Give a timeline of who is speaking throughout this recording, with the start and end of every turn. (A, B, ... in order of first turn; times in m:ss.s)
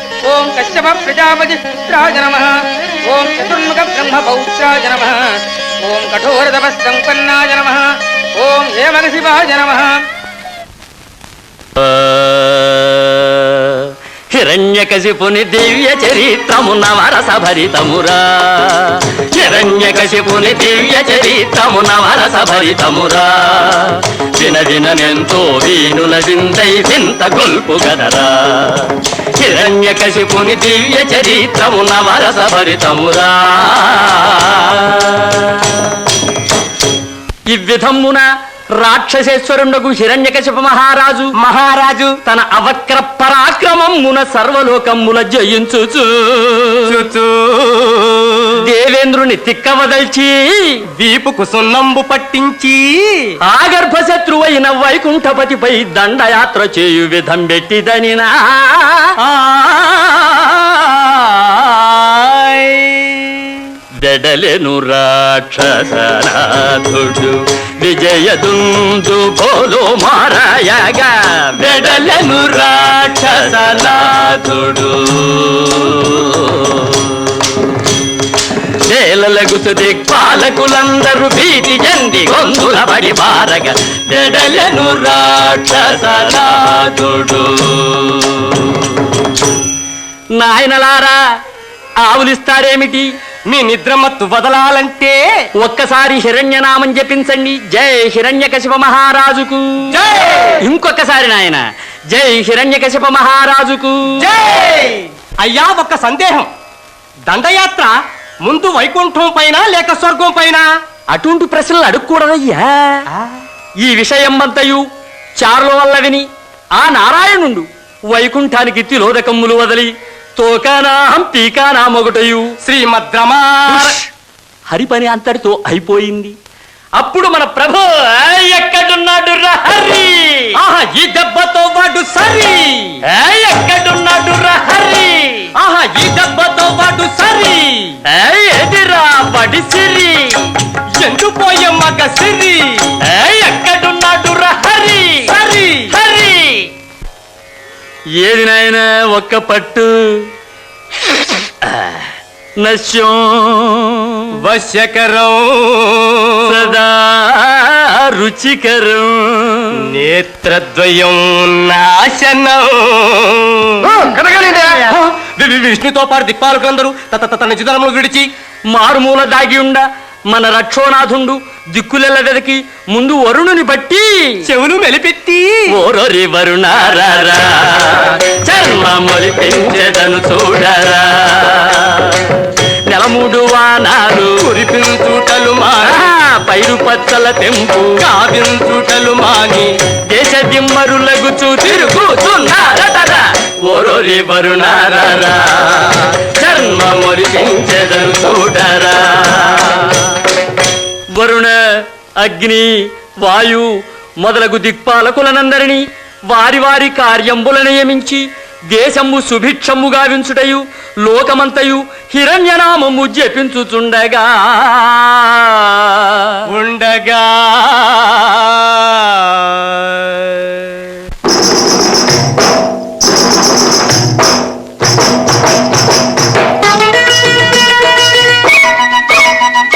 0:00.3-0:02.4 A
0:03.1-0:05.1 A
0:05.9-0:07.8 A
0:08.4-0:09.9 A
0:11.8-0:35.8 B
0:37.5-0:38.2 B
0:38.8-0:41.3 B
0:41.4-0:42.2 C
0:42.2-0:47.0 B
0:46.9-0:48.1 C
0:48.6-0:50.3 B
0:51.0-0:53.2 C
0:53.4-1:02.1 B
1:04.0-1:17.6 B
1:18.9-1:29.0 B
1:30.4-1:31.2 B
1:32.0-1:33.1 B
1:33.5-1:35.2 C
1:35.6-1:40.0 B
1:40.0-1:40.5 C
1:40.6-1:44.3 B
1:44.2-1:46.5 C
1:47.3-1:47.9 C
1:48.4-1:50.6 C
1:51.1-1:53.0 B
1:53.8-1:54.8 B
1:55.4-1:56.2 B
1:56.8-2:02.5 B
2:02.6-2:04.0 C
2:03.7-2:04.0 B
2:04.7-2:06.3 B
2:07.0-2:10.5 B
2:10.6-2:12.9 C
2:13.1-2:15.5 B
2:15.6-2:18.0 C
2:18.1-2:20.4 B
2:21.0-2:22.9 C
2:23.0-2:25.4 B
2:25.3-2:26.0 C
2:25.9-2:26.7 B
2:28.2-2:30.2 B
2:31.6-2:32.1 B
2:32.6-2:34.3 B
2:34.4-2:36.7 C
2:36.4-2:39.8 B
2:39.9-2:48.3 C
2:48.7-2:54.4 B
2:54.4-2:55.6 C
2:55.7-3:04.3 B
3:04.5-3:06.0 C
3:05.8-3:08.0 B
3:08.0-3:09.7 C
3:10.1-3:20.2 B
3:21.1-3:21.6 B
3:22.2-3:22.7 B
3:23.2-3:23.7 B
3:24.2-3:36.4 B
3:36.5-3:38.9 C